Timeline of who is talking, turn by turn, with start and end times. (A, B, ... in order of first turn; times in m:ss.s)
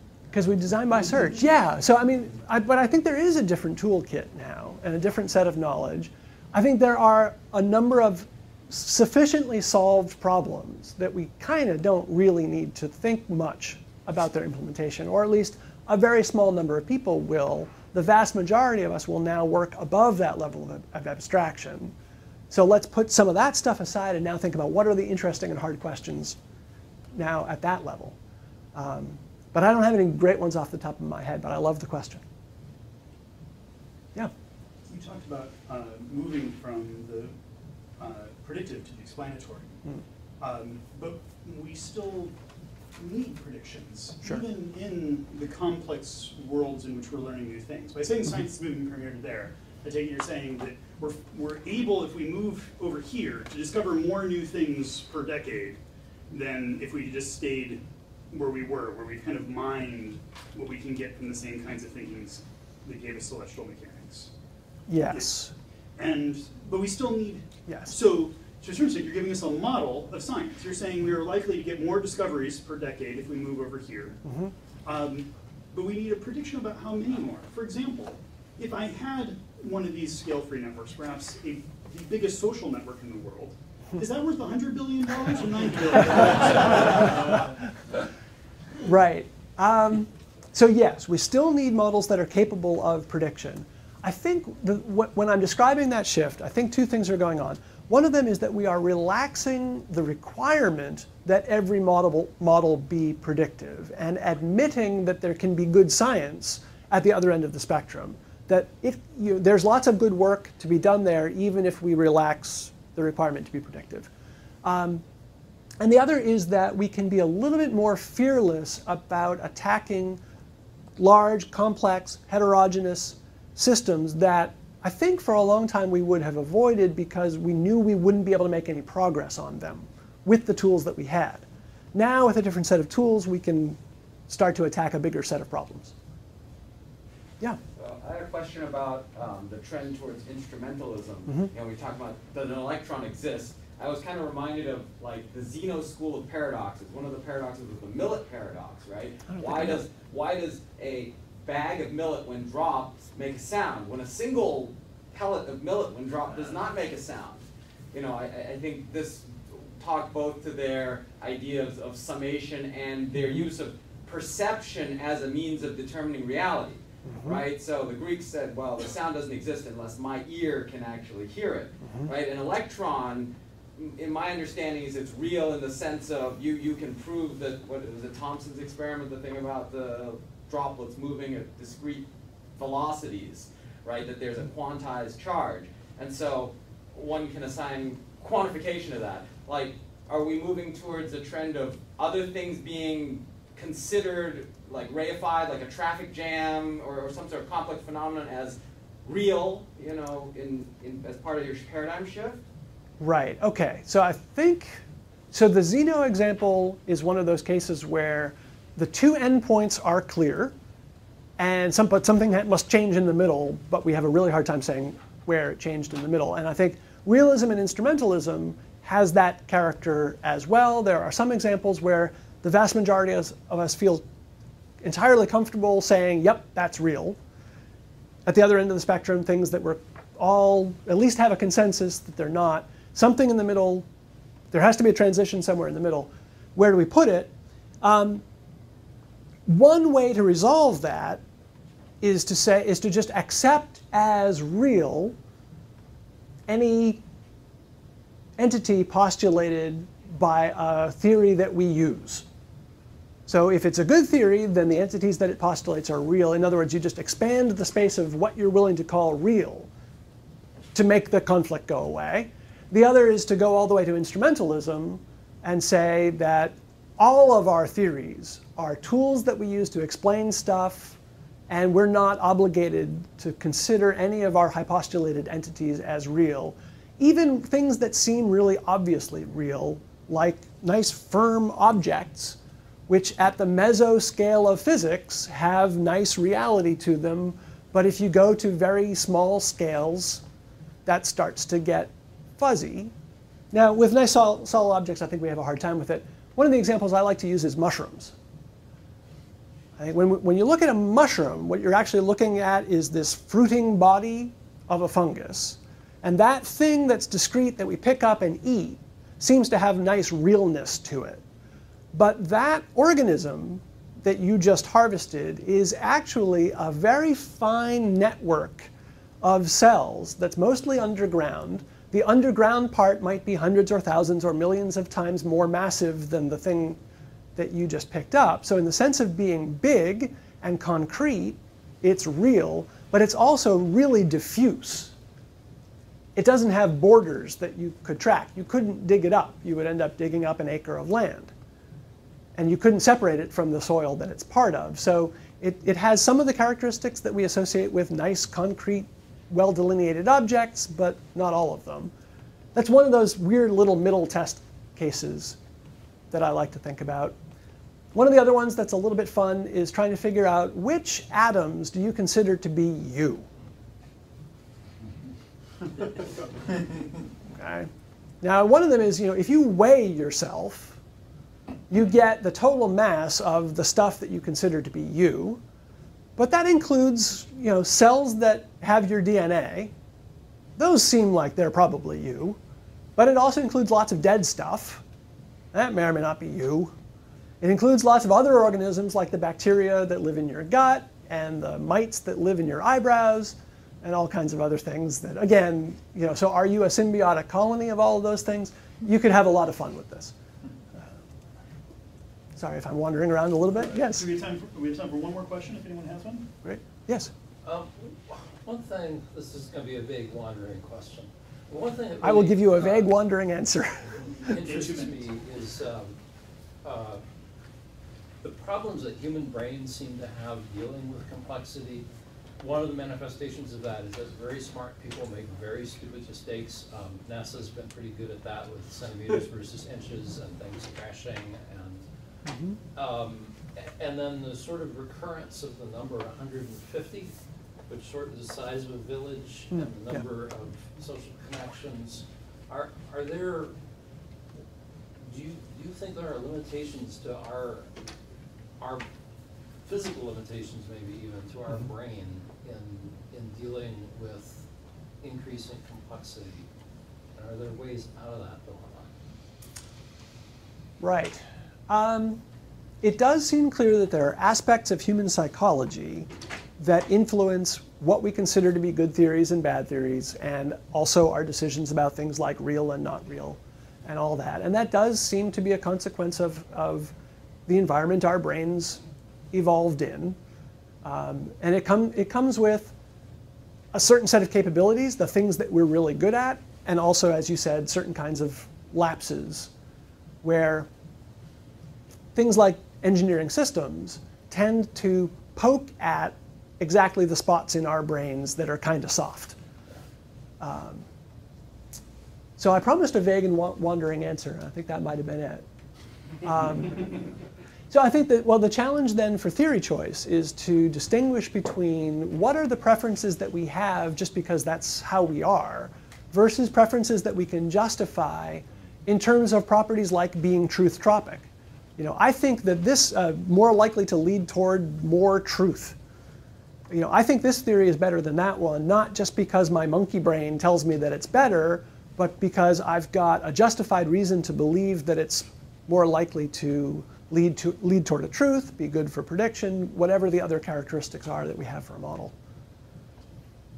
0:00.3-0:21.9 A
0:22.5-0:26.4 A
0:27.1-0:28.2 A
0:28.8-0:32.2 A
0:34.9-0:37.3 B
0:38.0-0:39.8 B
0:40.4-0:42.3 B
0:43.0-0:55.8 B
0:56.3-1:04.3 B
1:04.9-1:05.5 A
1:06.0-1:14.2 B
1:07.7-1:08.0 A
1:14.2-1:14.5 A
1:14.8-1:27.5 B
1:28.8-1:54.1 A
1:54.6-1:55.0 A
1:55.8-2:00.2 A
2:01.0-2:13.8 A
2:14.3-2:15.9 A
2:17.8-2:37.4 C
2:29.3-2:29.9 A
2:37.9-3:02.1 C
2:47.1-2:47.4 A
2:51.8-2:52.1 A
3:02.6-3:22.4 C
3:23.0-3:24.8 A
3:25.3-3:30.5 A
3:31.4-3:44.0 A
3:44.8-3:47.2 A
3:48.3-3:53.8 A
3:54.5-3:58.2 A
3:59.5-4:01.2 A
4:02.0-4:05.2 A
4:06.5-4:07.0 A
4:08.4-4:12.2 A
4:13.3-4:19.7 A
4:20.7-4:31.0 A
4:31.5-4:42.4 A
4:42.9-4:50.2 A
4:50.9-4:52.9 A
4:53.5-4:58.1 A
4:59.8-5:11.2 A
5:11.9-5:18.7 A
5:19.2-5:26.8 A
5:27.4-5:34.9 A
5:36.2-5:41.3 A
5:42.4-5:51.9 A
5:52.6-5:55.4 A
5:56.1-5:57.2 A
5:57.9-6:03.3 A
6:07.3-6:07.7 A
6:08.2-6:10.8 A
6:11.7-6:15.4 A
6:16.2-6:19.7 A
6:20.6-6:22.4 A
6:23.0-6:24.8 A
6:25.5-6:26.7 A
6:27.4-6:40.1 A
6:42.4-6:44.1 A
6:43.7-6:46.3 B
6:46.4-6:47.1 A
6:47.4-6:52.9 D
6:52.0-6:54.0 A
6:54.2-6:56.0 D
6:54.3-6:55.0 B
6:56.6-6:57.0 D
6:58.2-7:01.9 D
7:02.4-7:11.8 D
7:12.3-7:12.6 A
7:12.8-7:17.2 D
7:17.7-7:23.6 D
7:19.5-7:20.0 A
7:25.0-7:27.7 D
7:28.6-7:28.9 D
7:29.6-7:34.5 D
7:35.0-7:36.5 D
7:37.2-7:38.9 D
7:40.8-7:42.2 A
7:42.8-7:46.1 A
7:46.6-7:56.9 A
7:57.5-7:58.8 A
7:59.3-8:00.2 A
8:00.8-8:02.7 A
8:03.7-8:09.5 A
8:10.2-8:10.7 A
8:12.2-8:19.4 A
8:20.4-8:20.8 A
8:22.4-8:25.4 A
8:26.2-8:27.1 A
8:27.7-8:45.8 A
8:46.7-9:02.1 A